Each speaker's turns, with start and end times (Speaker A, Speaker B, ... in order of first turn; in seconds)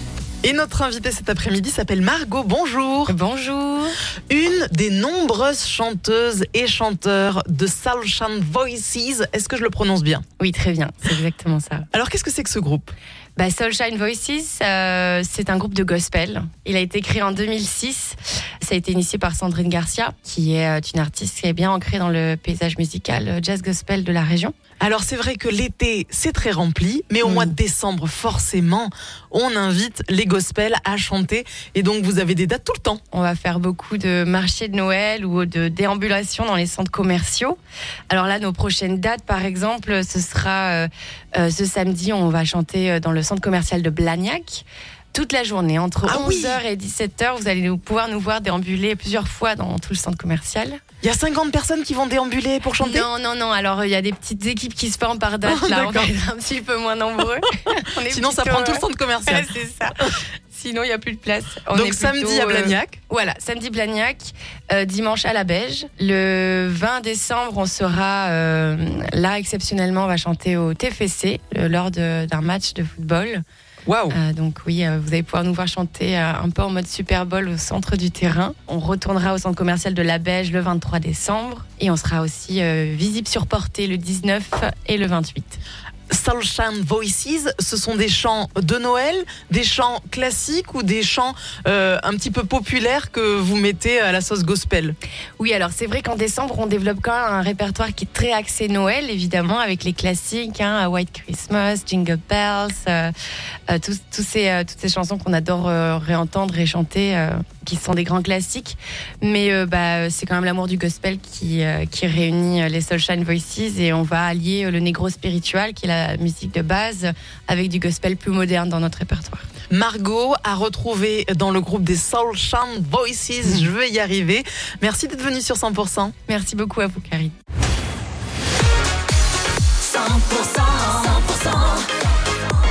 Speaker A: 0.4-3.1, 4.3-10.2, 11.9-12.9, 24.8-33.0, 46.0-46.6, 51.0-53.1, 55.4-56.1, 58.1-59.5, 61.7-63.0, 73.8-74.2, 86.1-95.0, 119.7-126.1
Speaker B: 3.1-4.0, 10.4-11.9, 13.3-24.6, 27.2-27.5, 33.1-37.6, 38.1-50.8, 52.8-60.0, 60.5-73.4, 74.1-85.6, 95.4-103.1, 103.7-119.5, 126.2-127.4
Speaker C: 129.8-131.9